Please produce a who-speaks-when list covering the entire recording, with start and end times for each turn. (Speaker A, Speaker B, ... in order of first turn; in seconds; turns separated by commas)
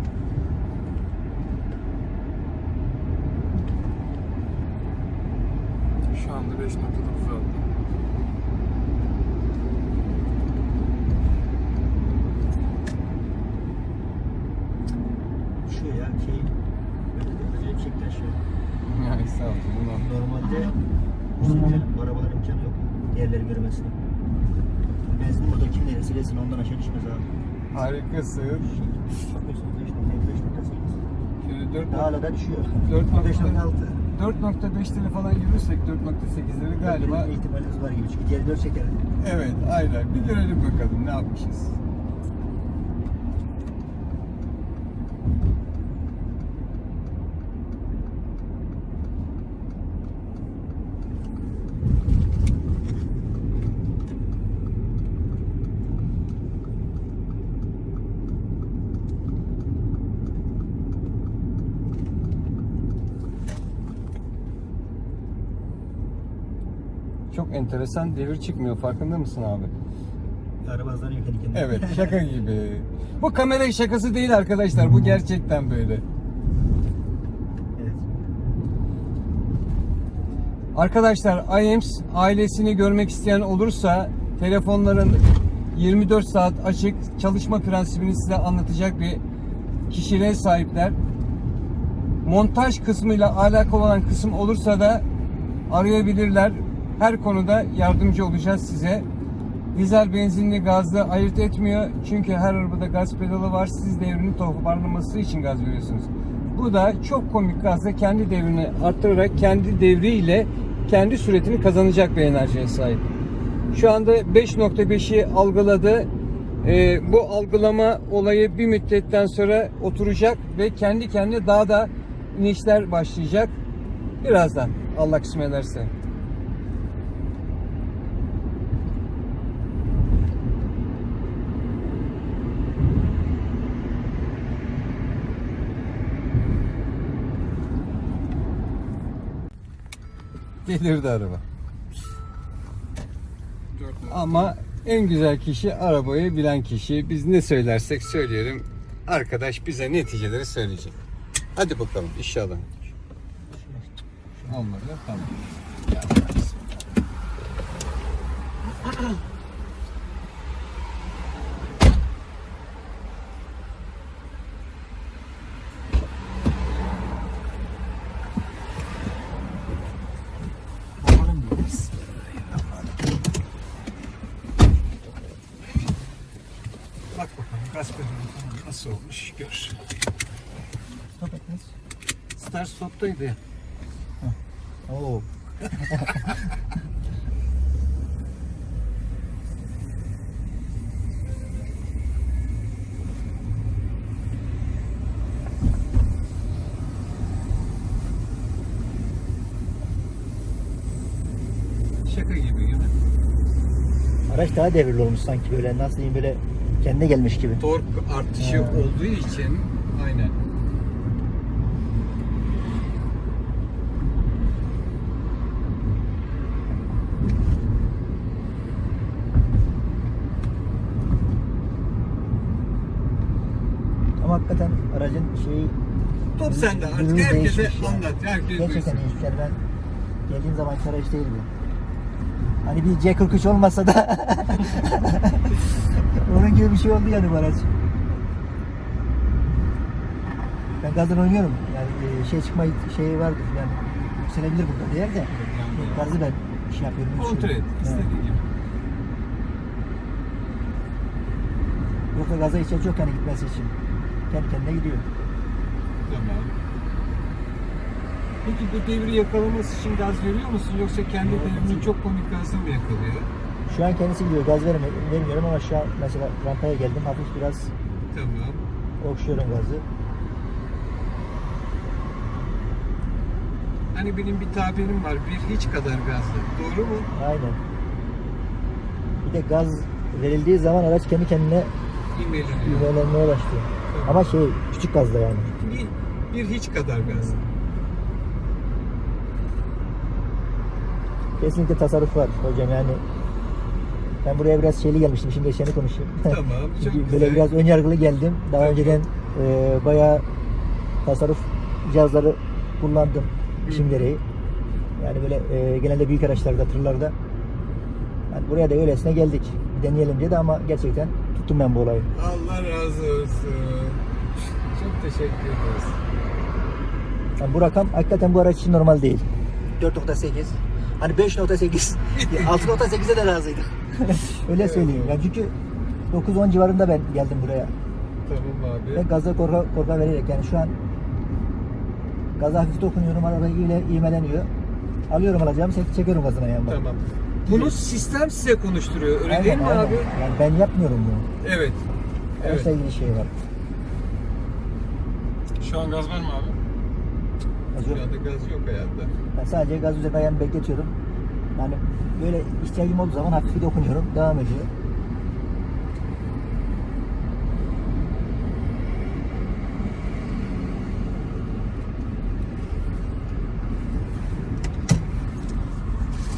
Speaker A: 6.1-7.6, Speaker B: 15.6-16.5, Speaker B: 17.1-18.4, Speaker C: 18.9-20.1, Speaker B: 19.9-20.8, Speaker B: 21.4-24.0, Speaker B: 25.1-27.3, Speaker C: 27.7-28.7, Speaker B: 28.5-31.0, Speaker C: 31.4-32.1, Speaker B: 31.9-34.0, Speaker C: 32.8-37.3, Speaker B: 36.7-39.0, Speaker C: 39.2-41.8, Speaker C: 67.3-69.7, Speaker B: 70.6-72.2, Speaker C: 71.5-76.0, Speaker B: 77.8-78.0, Speaker C: 80.7-89.2, Speaker C: 89.9-91.0, Speaker C: 92.2-95.0, Speaker C: 95.7-99.1, Speaker C: 99.7-113.0, Speaker C: 113.7-116.1, Speaker C: 116.6-123.5, Speaker C: 124.2-125.9, Speaker C: 140.6-141.4, Speaker A: 143.7-144.5, Speaker C: 144.1-151.0, Speaker C: 151.5-152.9, Speaker B: 153.5-154.6, Speaker C: 154.5-155.3, Speaker C: 155.9-156.4, Speaker B: 171.0-172.9, Speaker C: 177.1-179.8, Speaker B: 181.2-181.7, Speaker C: 182.3-183.4, Speaker B: 184.2-186.3, Speaker C: 202.0-202.9, Speaker B: 204.3-207.6, Speaker C: 207.6-210.3, Speaker B: 208.4-208.9, Speaker B: 224.2-225.8, Speaker C: 226.3-229.2, Speaker B: 226.4-229.6, Speaker B: 230.3-231.5, Speaker B: 232.6-237.7, Speaker B: 240.8-248.1, Speaker C: 245.3-246.1, Speaker C: 247.1-248.5, Speaker B: 252.1-253.8, Speaker B: 254.3-255.1, Speaker C: 256.1-256.5, Speaker C: 258.4-263.3, Speaker B: 261.2-261.9, Speaker B: 263.7-267.7, Speaker C: 268.1-268.6, Speaker B: 269.0-269.8, Speaker C: 273.9-277.1, Speaker B: 277.1-277.6, Speaker B: 279.2-281.7, Speaker C: 282.1-282.9, Speaker B: 282.6-285.5, Speaker C: 283.9-284.4, Speaker C: 285.5-287.4, Speaker B: 287.0-287.4, Speaker B: 291.4-293.0, Speaker B: 294.2-300.2, Speaker C: 296.2-297.5, Speaker C: 298.6-299.0, Speaker B: 301.0-304.2, Speaker C: 303.6-304.1, Speaker B: 305.0-307.1, Speaker B: 308.3-312.1, Speaker C: 312.1-314.0, Speaker C: 314.7-315.9, Speaker B: 317.4-319.2, Speaker B: 319.8-325.5, Speaker C: 322.1-322.8, Speaker C: 324.5-325.2, Speaker B: 326.1-327.7, Speaker C: 328.2-329.0, Speaker B: 328.9-330.7, Speaker B: 332.4-334.5, Speaker B: 335.1-336.8, Speaker C: 336.7-340.1, Speaker B: 337.4-337.8, Speaker B: 339.3-341.2, Speaker C: 341.4-341.8, Speaker B: 342.4-343.3, Speaker C: 342.4-342.7, Speaker A: 345.6-346.6, Speaker B: 347.7-348.1, Speaker C: 347.8-349.1, Speaker B: 349.3-350.9, Speaker B: 351.5-354.7